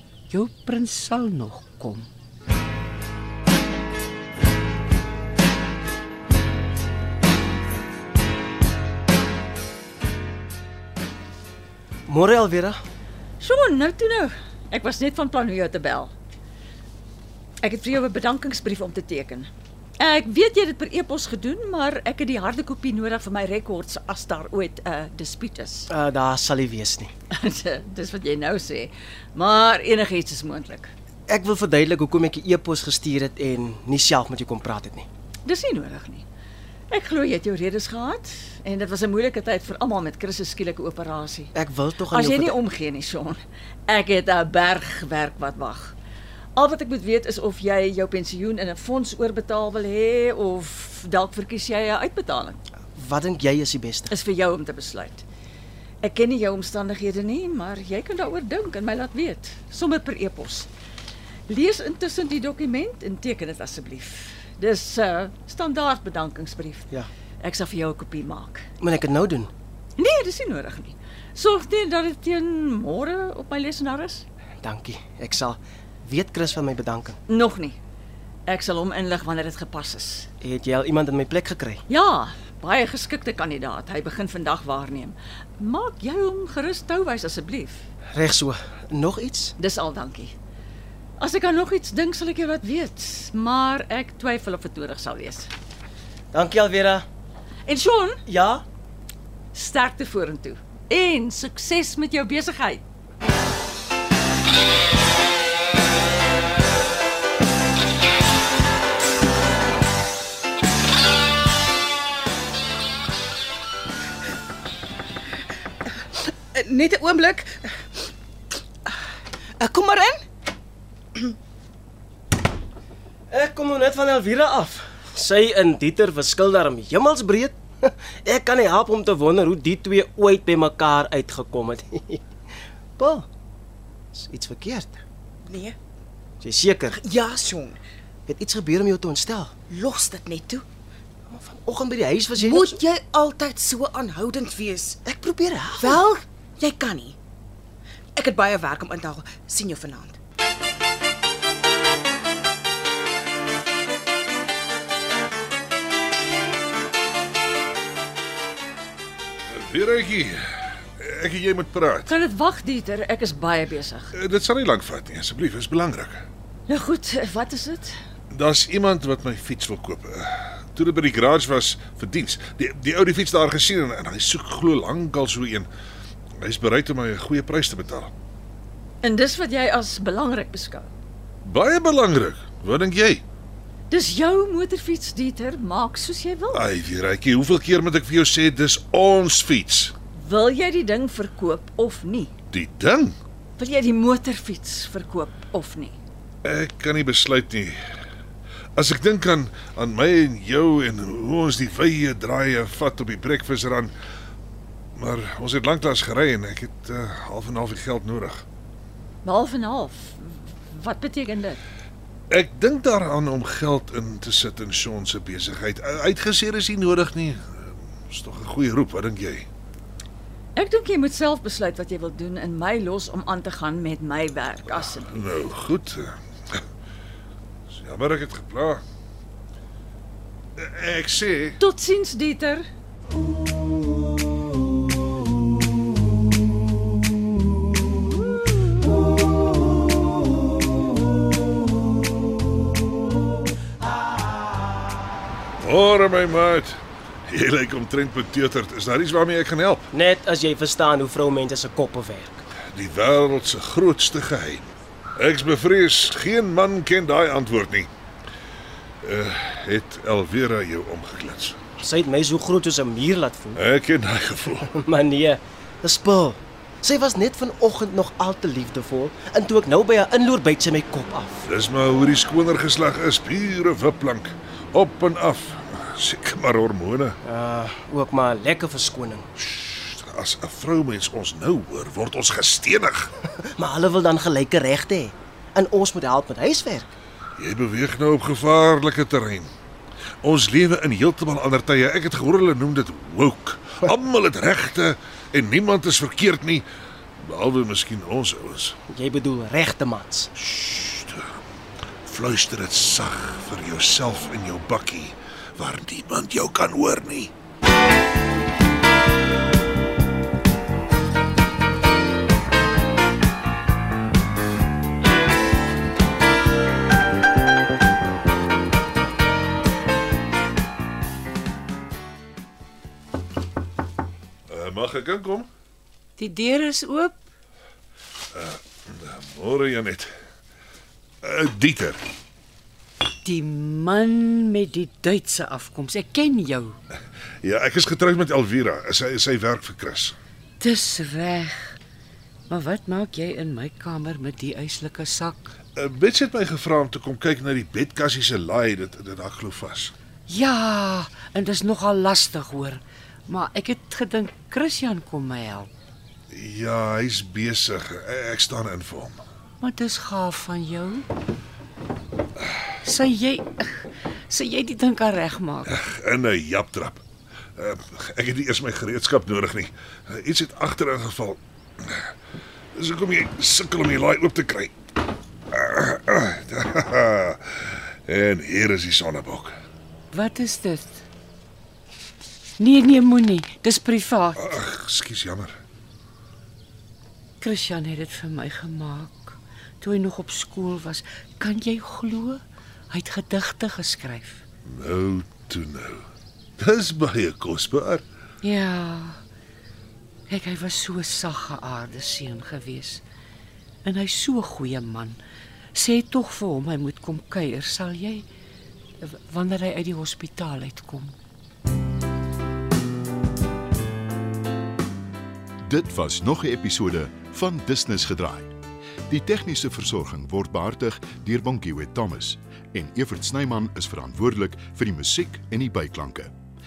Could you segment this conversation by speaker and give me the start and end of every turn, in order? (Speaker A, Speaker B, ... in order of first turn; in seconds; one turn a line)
Speaker A: 0.3-2.1
Speaker B: 12.1-12.8
Speaker C: 13.4-16.1
Speaker C: 17.6-25.9
Speaker B: 25.9-27.1
Speaker C: 27.3-30.9
Speaker B: 31.3-35.1
Speaker C: 35.5-36.2
Speaker C: 36.9-41.5
Speaker B: 41.5-42.5
Speaker C: 42.1-45.9
Speaker C: 46.5-52.6
Speaker B: 53.0-54.1
Speaker C: 54.1-55.2
Speaker C: 56.0-60.7
Speaker C: 61.5-66.9
Speaker C: 67.4-68.6
Speaker B: 68.8-69.5
Speaker C: 70.0-74.2
Speaker B: 74.6-77.2
Speaker C: 77.3-77.8
Speaker C: 78.5-80.3
Speaker B: 80.4-81.8
Speaker C: 81.9-87.8
Speaker B: 88.1-89.5
Speaker C: 89.6-90.3
Speaker C: 91.2-95.5
Speaker B: 96.3-97.0
Speaker C: 97.7-98.2
Speaker B: 98.2-98.6
Speaker C: 99.5-102.8
Speaker D: 116.5-118.1
Speaker D: 119.6-120.2
Speaker B: 123.3-132.2
Speaker B: 133.0-133.3
Speaker B: 134.1-135.0
Speaker D: 135.4-135.8
Speaker B: 136.4-137.0
Speaker D: 136.9-137.8
Speaker B: 138.3-139.5
Speaker D: 139.7-140.6
Speaker B: 141.3-142.8
Speaker D: 142.4-145.0
Speaker B: 145.0-146.0
Speaker D: 145.8-147.2
Speaker D: 148.1-150.2
Speaker E: 159.5-162.1
Speaker C: 162.1-164.1
Speaker E: 164.1-166.3
Speaker C: 166.7-167.9
Speaker E: 168.3-175.7
Speaker E: 176.4-178.1
Speaker C: 179.0-180.9
Speaker E: 181.4-183.2
Speaker C: 183.9-186.7
Speaker E: 186.5-189.9
Speaker C: 190.1-192.3
Speaker E: 192.5-193.2
Speaker C: 193.6-195.9
Speaker E: 196.4-197.8
Speaker E: 198.8-203.9
Speaker E: 205.0-208.4
Speaker C: 209.2-211.6
Speaker E: 212.3-219.5
Speaker C: 220.6-225.4
Speaker E: 224.7-226.6
Speaker E: 227.7-228.8
Speaker E: 230.6-231.6
Speaker C: 231.6-232.7
Speaker E: 245.6-249.9
Speaker B: 249.9-252.5
Speaker E: 252.6-257.9
Speaker E: 259.0-261.6
Speaker B: 261.8-263.6
Speaker E: 263.6-264.8
Speaker B: 264.8-271.4
Speaker E: 271.4-277.2
Speaker B: 277.2-279.3
Speaker E: 279.4-283.1
Speaker B: 283.4-286.9
Speaker E: 287.4-289.5
Speaker E: 290.2-296.7
Speaker E: 297.2-298.8
Speaker B: 298.9-300.3
Speaker E: 300.4-301.4
Speaker E: 302.0-307.3
Speaker E: 324.5-325.5
Speaker A: 326.2-327.2
Speaker E: 328.3-330.1
Speaker E: 331.2-332.0
Speaker A: 333.2-336.8
Speaker E: 337.4-340.1
Speaker A: 340.6-341.8
Speaker A: 342.5-345.5
Speaker E: 345.8-349.9
Speaker A: 350.3-355.7
Speaker E: 356.3-359.2
Speaker A: 359.6-361.1
Speaker A: 362.8-365.8
Speaker E: 365.7-367.0
Speaker E: 367.6-372.1
Speaker E: 372.7-374.7
Speaker E: 375.5-379.6
Speaker A: 380.1-381.0
Speaker A: 382.6-384.4
Speaker E: 384.4-385.6
Speaker A: 387.4-394.4
Speaker E: 394.6-396.0
Speaker E: 396.6-398.0
Speaker A: 398.4-399.2
Speaker A: 400.3-403.0
Speaker A: 403.8-405.2
Speaker A: 405.7-408.2
Speaker A: 409.0-411.1
Speaker F: 415.6-418.5
Speaker F: 419.1-426.3